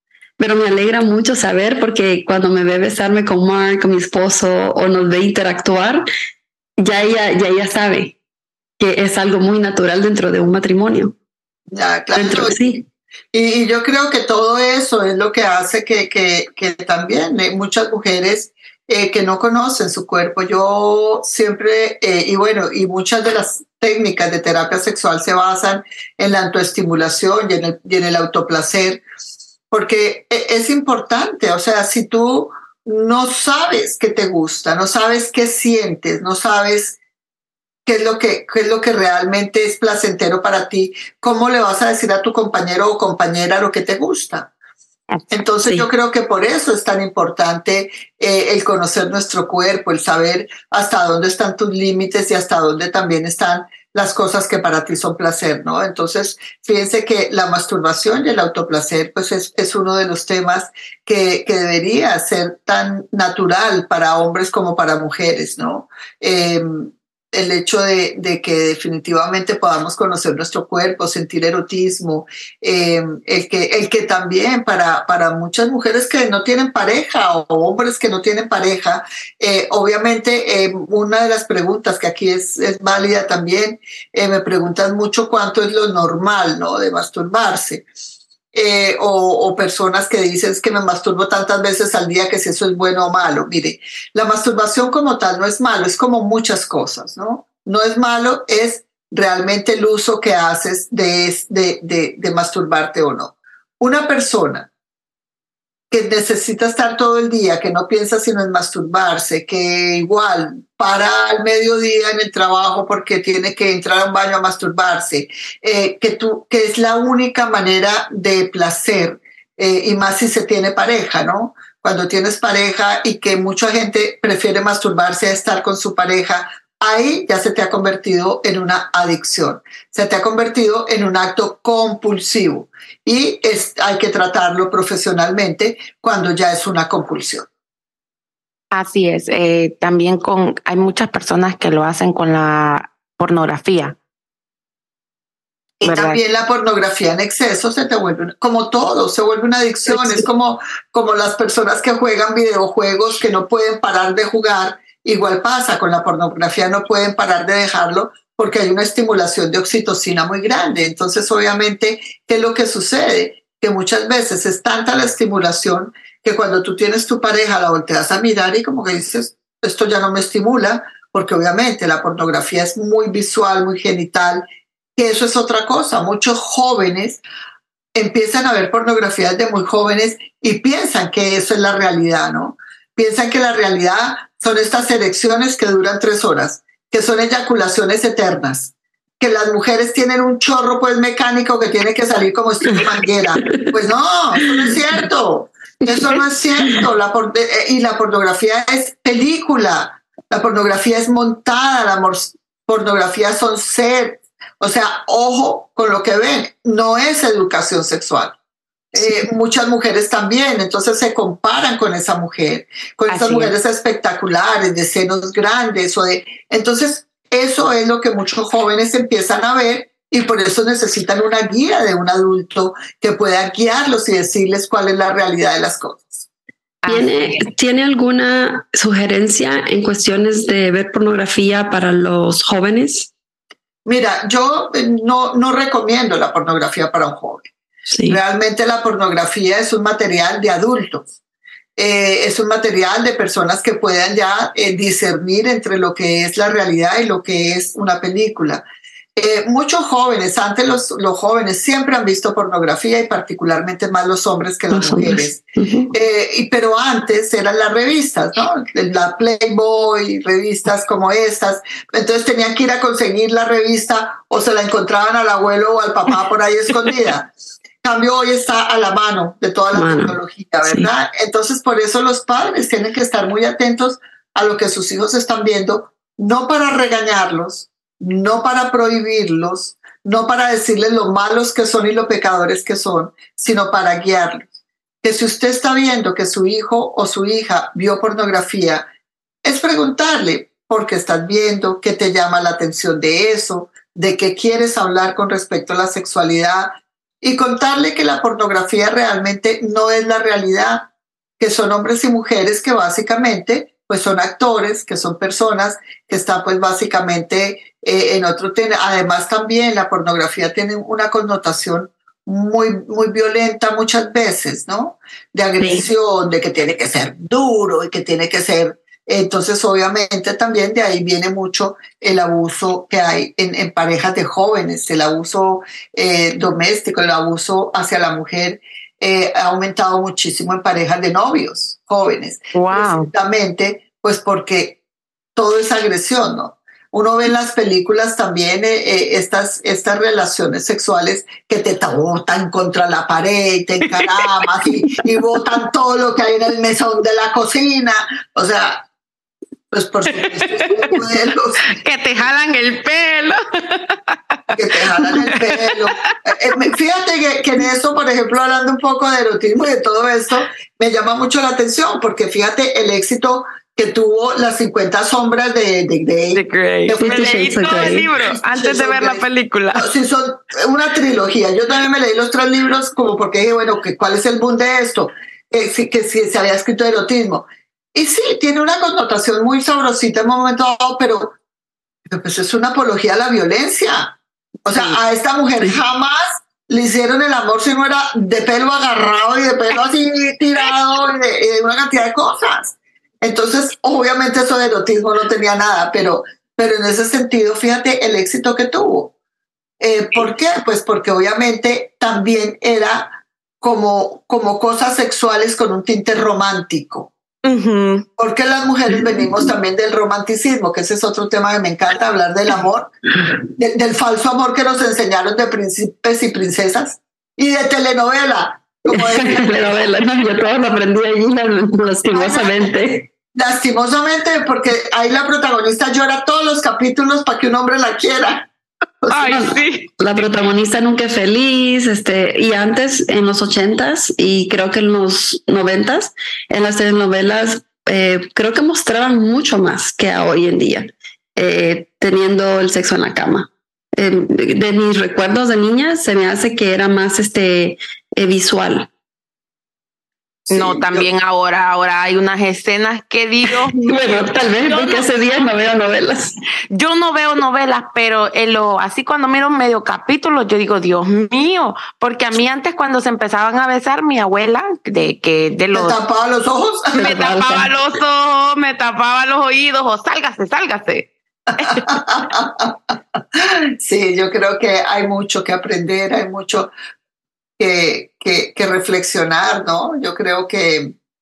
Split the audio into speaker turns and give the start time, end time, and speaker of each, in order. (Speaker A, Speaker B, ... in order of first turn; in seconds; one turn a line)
Speaker A: 0.4-6.0
Speaker A: 6.8-8.2
Speaker A: 8.8-11.2
Speaker B: 11.7-29.0
Speaker A: 12.1-12.8
Speaker B: 29.7-37.0
Speaker B: 37.9-44.5
Speaker B: 45.3-87.9
Speaker B: 88.5-104.7
Speaker B: 105.9-137.5
Speaker C: 138.7-144.0
Speaker B: 145.8-174.4
Speaker C: 145.8-146.2
Speaker B: 174.9-177.2
Speaker B: 177.9-208.3
Speaker A: 192.7-193.7
Speaker A: 194.5-195.0
Speaker B: 208.9-226.3
Speaker C: 213.1-213.5
Speaker C: 226.8-227.4
Speaker A: 226.9-233.1
Speaker B: 233.8-237.5
Speaker A: 237.9-238.2
Speaker B: 238.1-241.1
Speaker B: 241.8-248.6
Speaker B: 249.2-267.3
Speaker A: 254.7-255.9
Speaker B: 267.8-284.5
Speaker A: 269.7-270.9
Speaker B: 285.0-288.9
Speaker B: 289.4-334.8
Speaker A: 315.6-315.9
Speaker C: 332.5-333.1
Speaker B: 335.3-348.9
Speaker B: 349.7-351.6
Speaker C: 350.2-351.0
Speaker C: 351.7-354.1
Speaker B: 354.5-369.2
Speaker C: 355.1-356.1
Speaker C: 366.3-369.9
Speaker A: 367.0-368.1
Speaker B: 369.7-381.4
Speaker B: 382.1-399.1
Speaker B: 399.8-407.1
Speaker C: 407.4-408.1
Speaker B: 408.2-412.9
Speaker B: 413.4-419.8
Speaker A: 418.9-423.1
Speaker B: 422.1-422.7
Speaker B: 423.3-428.5
Speaker B: 429.0-429.6
Speaker C: 429.1-429.9
Speaker A: 429.3-448.9
Speaker B: 450.5-451.1
Speaker C: 450.5-455.5
Speaker A: 453.8-456.3
Speaker C: 456.7-466.0
Speaker B: 465.7-467.1
Speaker C: 466.9-471.8
Speaker A: 467.0-467.7
Speaker B: 471.6-476.7
Speaker B: 477.6-480.9